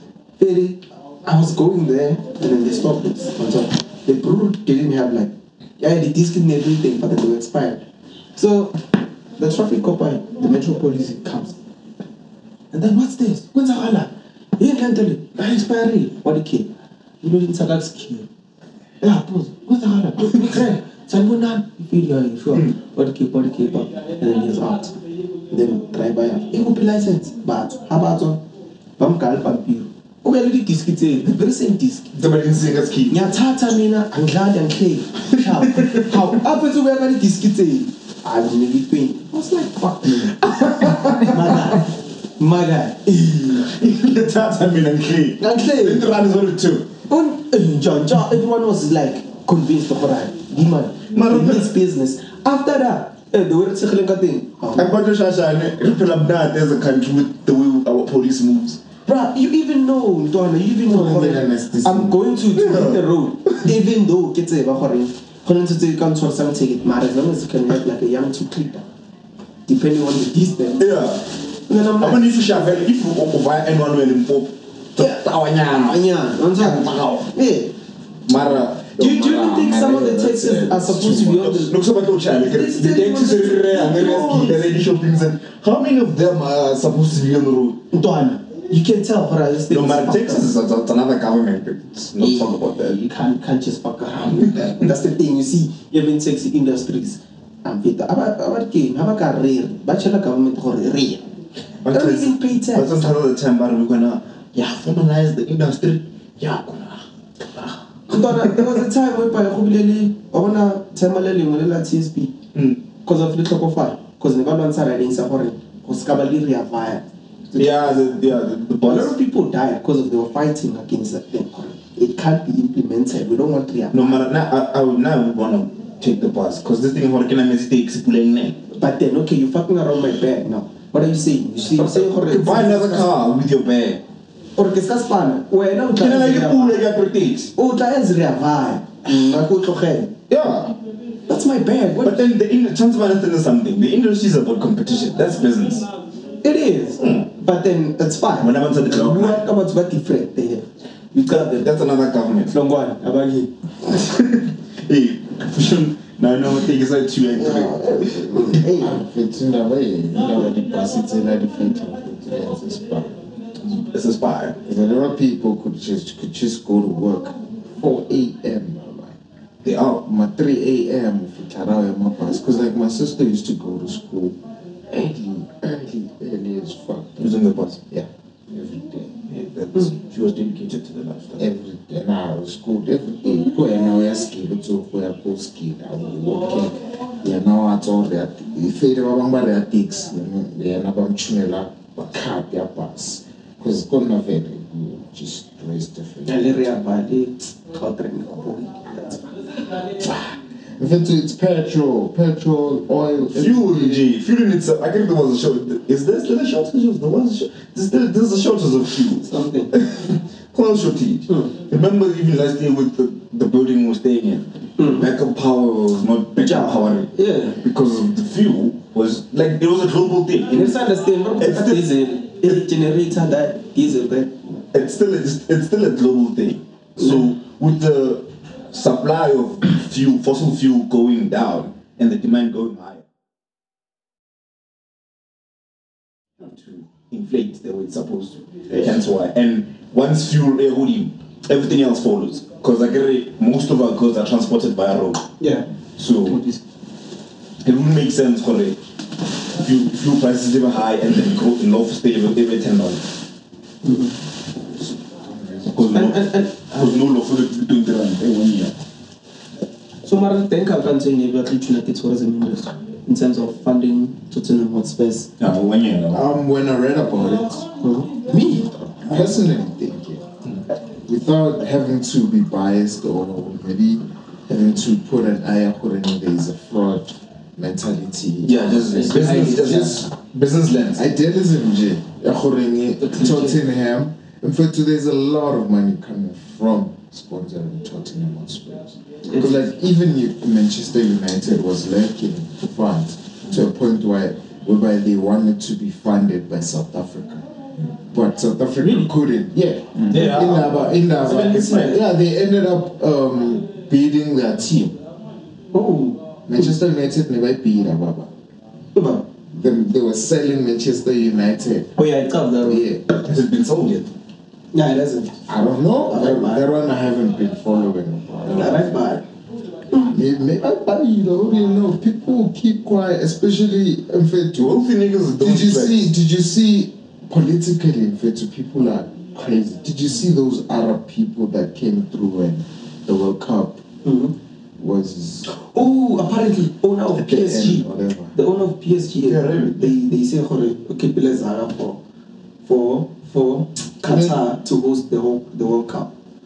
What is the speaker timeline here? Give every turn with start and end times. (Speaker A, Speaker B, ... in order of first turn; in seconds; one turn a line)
Speaker A: 0.4-7.8
Speaker A: 8.3-8.8
Speaker A: 9.4-11.6
Speaker A: 12.7-16.7
Speaker A: 17.2-18.3
Speaker A: 19.0-24.9
Speaker A: 25.5-28.4
Speaker A: 29.0-32.1
Speaker B: 32.1-33.3
Speaker A: 33.1-40.4
Speaker B: 35.3-36.3
Speaker B: 40.2-41.8
Speaker A: 41.2-43.6
Speaker B: 43.5-46.9
Speaker A: 45.4-46.1
Speaker A: 47.1-54.9
Speaker B: 51.1-51.7
Speaker B: 54.7-58.8
Speaker A: 59.0-68.8
Speaker C: 60.9-62.2
Speaker B: 62.5-63.6
Speaker A: 69.7-71.0
Speaker B: 70.8-71.2
Speaker A: 71.7-72.8
Speaker B: 72.0-77.2
Speaker A: 75.0-77.7
Speaker B: 78.3-79.0
Speaker C: 78.3-81.5
Speaker A: 79.0-81.7
Speaker B: 81.4-87.8
Speaker A: 82.4-84.7
Speaker A: 87.9-90.5
Speaker B: 89.7-93.0
Speaker A: 92.2-101.2
Speaker B: 94.6-94.8
Speaker B: 101.8-108.8
Speaker A: 101.9-103.1
Speaker A: 108.1-112.3
Speaker B: 112.5-112.8
Speaker A: 113.0-117.9
Speaker B: 117.5-119.1
Speaker A: 118.8-124.3
Speaker B: 123.9-128.6
Speaker A: 128.7-133.1
Speaker B: 131.7-134.0
Speaker A: 134.6-136.8
Speaker B: 135.9-137.5
Speaker A: 137.6-140.2
Speaker B: 140.3-140.7
Speaker A: 141.3-142.2
Speaker B: 142.0-145.8
Speaker A: 146.4-151.7
Speaker B: 147.0-147.3
Speaker B: 148.4-149.4
Speaker B: 151.2-152.6
Speaker A: 152.5-153.5
Speaker B: 153.8-158.2
Speaker A: 157.4-159.0
Speaker C: 158.0-163.2
Speaker B: 163.7-164.6
Speaker C: 164.6-169.2
Speaker B: 169.6-170.0
Speaker C: 170.0-174.4
Speaker C: 174.9-177.3
Speaker B: 177.2-177.8
Speaker C: 177.9-179.1
Speaker B: 179.3-181.4
Speaker C: 181.4-196.8
Speaker A: 196.2-199.3
Speaker C: 199.9-204.1
Speaker B: 203.3-220.8
Speaker A: 209.2-209.7
Speaker A: 211.3-211.5
Speaker A: 214.8-215.1
Speaker A: 216.4-217.6
Speaker A: 220.5-224.6
Speaker B: 221.4-221.9
Speaker B: 224.7-233.0
Speaker B: 236.4-245.3
Speaker A: 238.7-238.9
Speaker A: 245.4-245.7
Speaker B: 246.0-246.4
Speaker A: 246.2-246.6
Speaker B: 247.6-248.8
Speaker B: 249.6-253.0
Speaker A: 253.8-254.2
Speaker C: 255.2-256.0
Speaker B: 255.7-258.7
Speaker A: 255.9-257.1
Speaker A: 260.0-265.3
Speaker B: 265.4-266.2
Speaker C: 266.1-270.2
Speaker A: 268.3-268.6
Speaker C: 271.1-280.1
Speaker B: 278.4-281.0
Speaker A: 278.9-280.0
Speaker C: 280.9-297.4
Speaker A: 283.0-283.6
Speaker A: 289.2-289.6
Speaker C: 298.1-304.9
Speaker A: 298.8-299.1
Speaker B: 300.1-302.0
Speaker A: 301.3-301.9
Speaker A: 305.7-306.3
Speaker C: 306.4-308.3
Speaker A: 308.9-309.3
Speaker C: 309.5-311.9
Speaker A: 312.0-312.8
Speaker C: 312.6-313.1
Speaker B: 313.2-314.1
Speaker A: 314.7-315.4
Speaker C: 315.5-318.9
Speaker A: 316.0-316.6
Speaker A: 318.5-319.2
Speaker C: 320.0-324.8
Speaker B: 324.6-326.1
Speaker C: 325.4-333.8
Speaker A: 334.0-334.3
Speaker C: 334.8-335.6
Speaker A: 335.5-342.0
Speaker C: 337.1-338.3
Speaker B: 339.2-339.9
Speaker A: 342.6-346.1
Speaker C: 344.0-344.4